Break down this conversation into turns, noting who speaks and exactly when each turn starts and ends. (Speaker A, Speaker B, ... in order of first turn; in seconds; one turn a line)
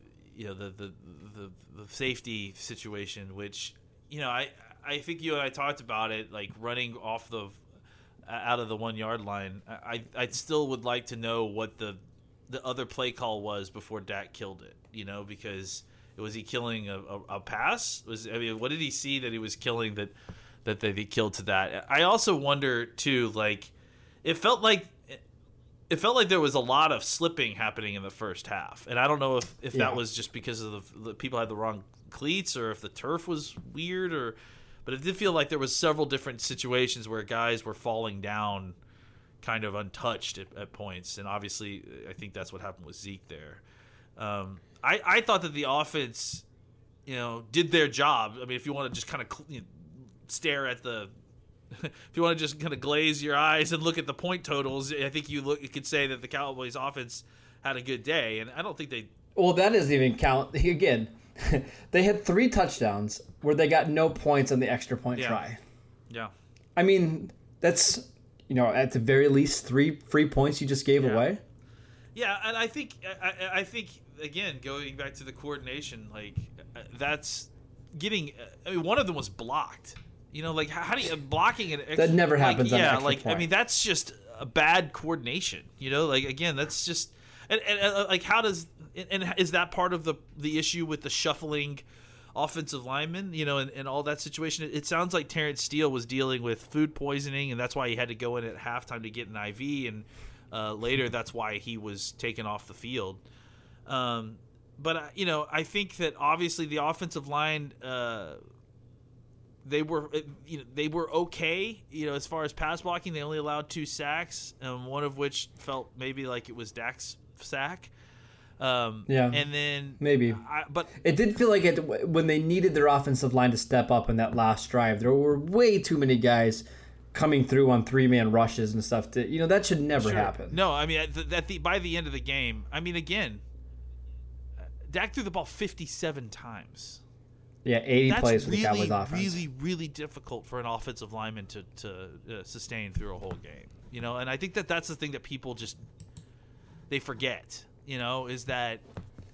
Speaker A: 0.3-7.6
Speaker A: 8.3-20.1
Speaker A: 20.6-23.7
Speaker A: 24.2-25.2
Speaker A: 25.9-38.8
Speaker B: 29.7-30.0
Speaker A: 39.4-43.6
Speaker A: 44.2-46.4
Speaker A: 47.1-51.1
Speaker A: 51.7-59.1
Speaker B: 59.4-65.6
Speaker A: 65.2-65.4
Speaker B: 66.8-71.4
Speaker A: 72.2-91.8
Speaker B: 82.0-83.5
Speaker A: 92.3-103.2
Speaker A: 103.9-108.4
Speaker A: 109.7-117.9
Speaker A: 118.6-120.9
Speaker B: 119.1-119.4
Speaker B: 120.0-120.4
Speaker B: 121.0-130.6
Speaker A: 130.0-133.4
Speaker A: 134.8-137.0
Speaker B: 137.7-139.4
Speaker A: 138.1-145.8
Speaker A: 146.9-148.8